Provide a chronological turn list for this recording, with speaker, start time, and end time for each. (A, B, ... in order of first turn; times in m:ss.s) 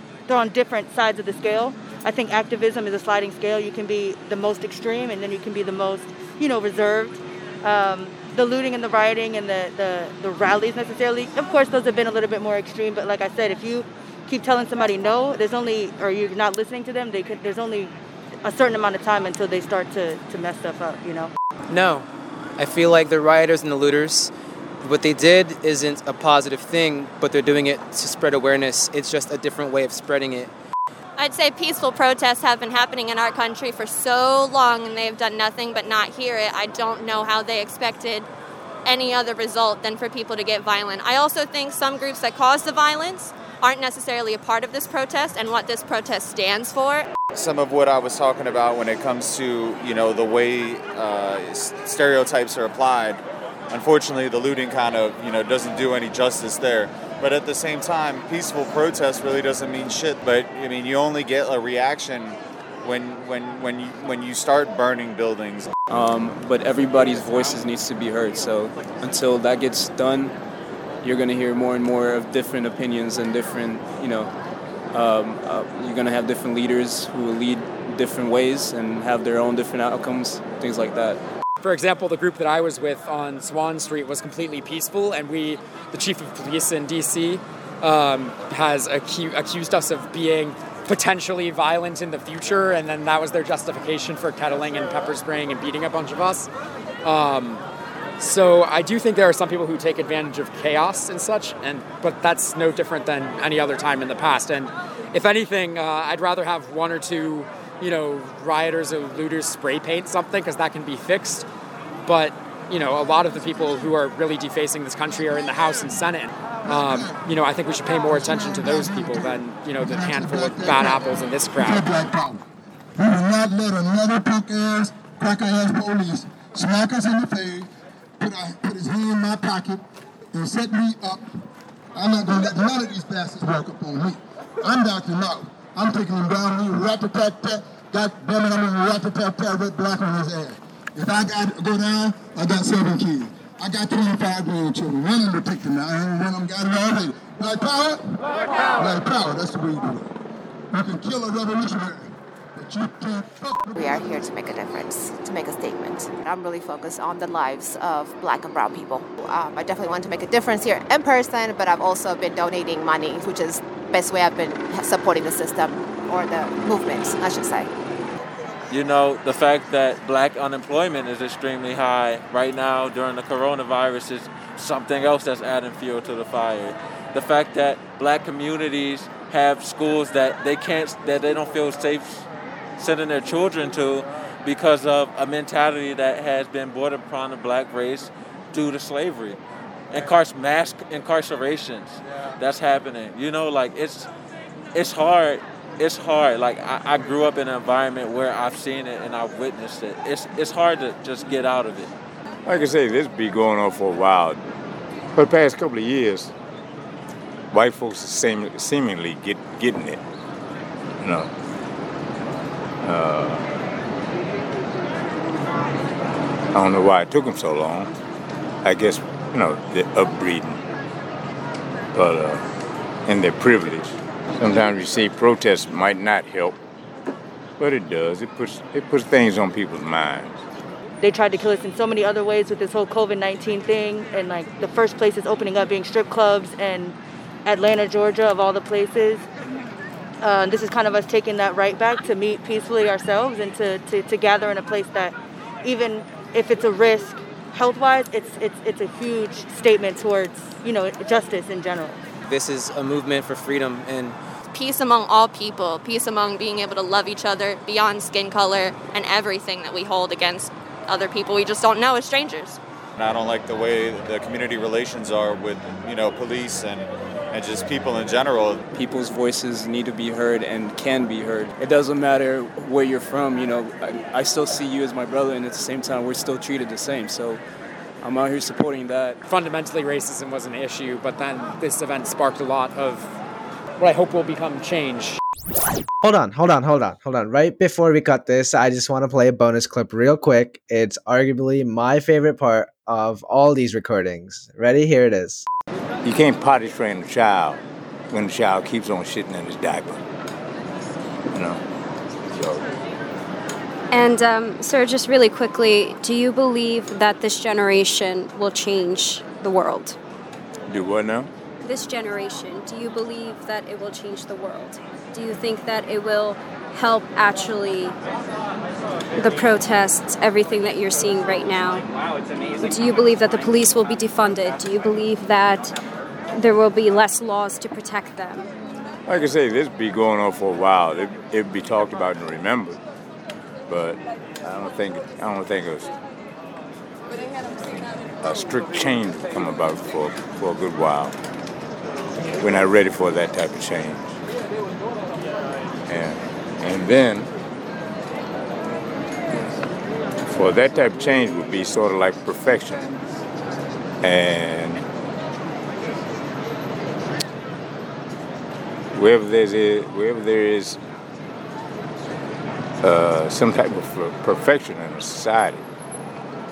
0:00.3-0:21.3 A
0:21.7-0:30.5 B
0:31.2-0:38.3 C
0:38.8-0:47.1 C
0:47.3-1:05.7 D
1:05.9-1:10.3 E
1:11.0-1:14.3 E
1:14.9-1:21.2 E
1:21.6-1:36.5 F
1:37.0-1:37.6 F
1:38.2-1:51.4 F
1:52.0-2:01.9 F
1:56.6-1:57.2 G
1:58.0-2:02.4 G
2:03.0-2:11.3 G
2:11.9-2:28.2 G
2:28.8-2:30.1 G
2:30.7-2:34.2 G
2:33.7-2:47.7 H
2:48.7-3:02.2 I
3:02.8-3:09.4 I
3:09.9-3:14.1 I
3:14.7-3:21.9 I
3:22.4-3:24.4 J
3:25.1-3:26.3 J
3:27.5-3:30.0 J
3:31.0-3:31.3 J
3:32.8-3:33.4 J
3:36.5-3:38.0 J
3:38.6-3:40.6 J
3:41.9-3:42.4 J
3:43.0-3:46.6 J
3:47.6-3:50.4 J
3:51.0-3:59.3 A
4:00.2-4:12.0 A
4:12.2-4:14.2 B
4:14.5-4:22.6 C
4:23.0-4:28.6 D
4:28.7-4:37.4 E
4:38.0-4:39.2 E
4:39.3-4:43.1 F
4:43.8-4:45.2 F
4:46.0-4:55.4 K
4:56.0-5:00.0 J
5:01.3-5:01.6 J
5:02.3-5:02.7 J
5:03.9-5:10.0 L
5:10.7-5:11.3 J
5:11.6-5:18.0 L
5:19.2-5:21.8 L
5:22.6-5:25.7 L
5:26.4-5:28.5 L
5:29.0-5:32.8 J
5:33.7-5:35.9 J
5:38.2-5:41.1 J
5:42.4-5:44.2 J
5:45.9-5:47.3 J
5:50.3-5:53.0 J
5:54.0-5:54.9 J
5:58.9-6:00.8 J
6:02.8-6:05.7 J